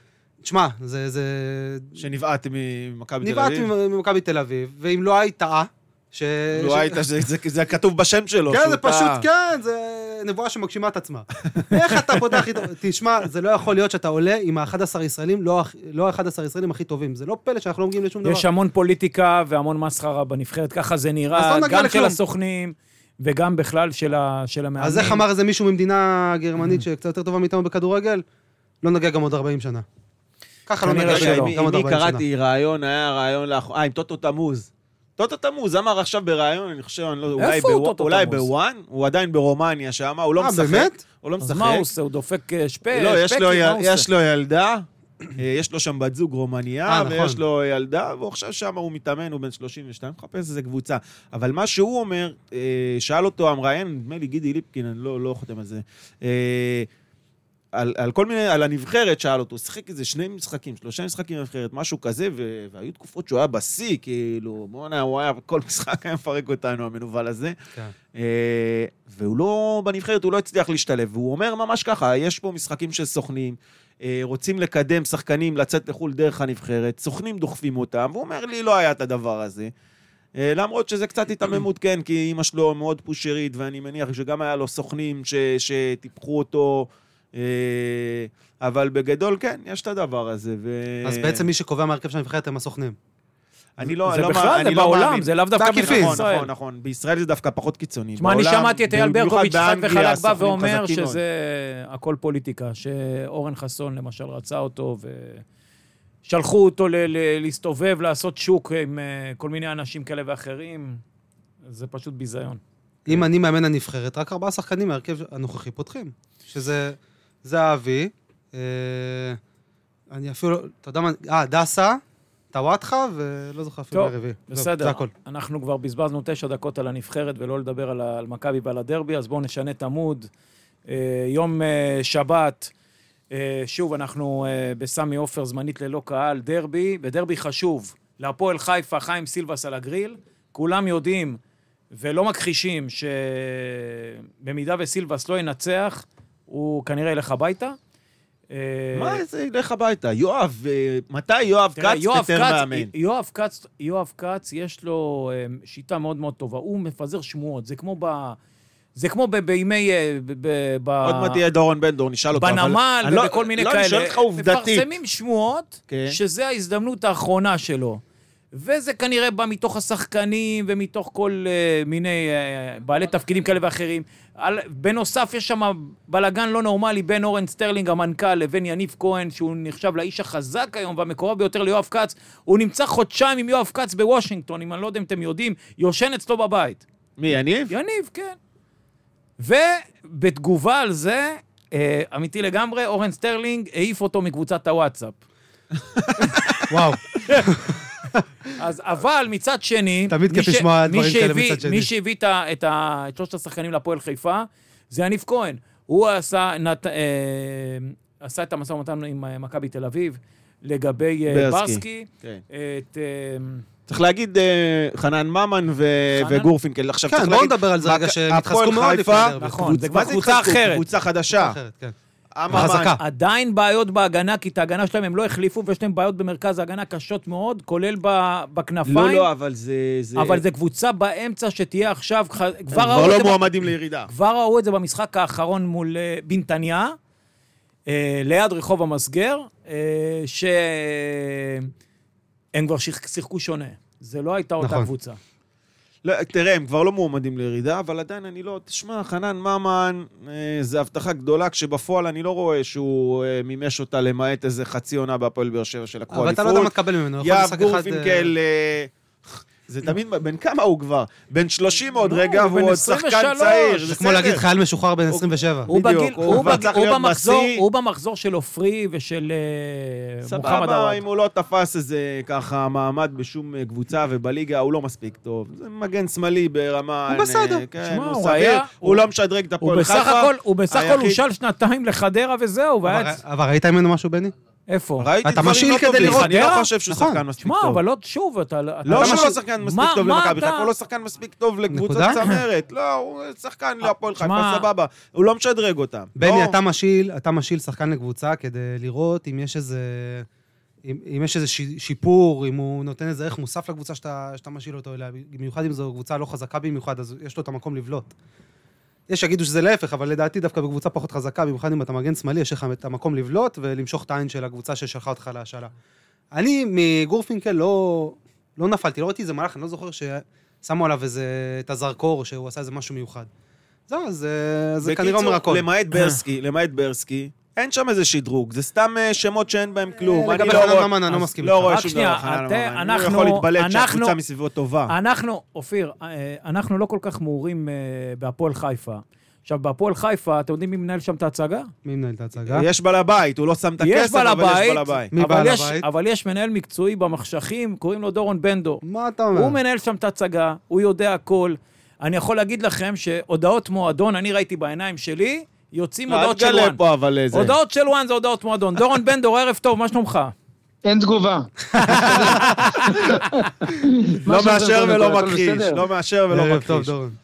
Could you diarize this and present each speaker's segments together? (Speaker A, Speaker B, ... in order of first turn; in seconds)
Speaker A: 0.4-2.0, 3.2-7.1, 8.5-18.5, 21.3-22.2, 24.8-28.2, 28.8-29.9, 30.7-32.3, 40.4-41.0, 46.9-47.4, 91.0-93.0, 95.6-96.2, 113.1-119.4, 120.1-122.0, 122.5-125.1, 196.7-197.8, 200.1-201.9, 217.1-219.7, 221.3-221.9, 222.5-223.0, 244.6-244.9, 256.1-258.3, 263.9-265.7, 266.3-266.6, 277.1-277.7, 282.9-284.4, 285.2-287.2, 288.9-289.4, 291.7-292.2, 296.2-300.3, 300.8-308.1, 309.1-315.7, 316.3-323.3, 323.9-326.2, 330.0-331.8, 341.8-342.7, 345.1-345.9, 348.8-349.6, 366.3-367.2
Speaker B: 2.0-3.7, 6.5-9.2, 11.5-12.2, 30.9-41.9, 42.9-56.9, 57.7-67.5, 68.1-79.7, 80.4-91.4, 93.8-101.2, 148.9-152.9, 161.0-164.9, 165.9-166.2, 187.2-187.7, 195.9-196.8, 211.3-212.4, 213.9-221.6, 222.3-223.0, 228.9-230.4, 232.7-234.1, 246.0-258.9, 259.7-264.4, 265.7-267.6, 270.3-281.2, 285.0-287.8, 288.9-296.6, 324.8-334.9, 342.5-345.1, 356.1-357.5, 364.2-366.9
Speaker C: 18.2-25.2, 30.8-31.6, 37.4-38.5, 41.4-44.1, 94.1-96.5, 98.2-105.4, 106.3-111.0, 111.7-112.6, 123.9-130.3, 130.9-132.7, 133.3-141.4, 141.9-147.8, 148.5-149.2, 151.8-158.4, 159.0-161.4, 162.3-168.0, 168.5-186.8, 187.7-188.4, 189.4-195.2, 198.6-213.6, 216.2-216.5, 219.4-220.9, 222.5-229.3, 230.2-233.5, 234.1-237.0, 237.9-241.7, 242.6-245.2, 262.0-264.0, 265.7-271.0, 277.8-279.1, 279.6-283.2, 284.7-285.1, 286.0-286.7, 287.4-290.7, 293.8-294.7, 331.6-334.2, 334.9-341.7, 343.8-348.8, 349.3-360.3, 361.9-362.2
Speaker D: 360.8-365.8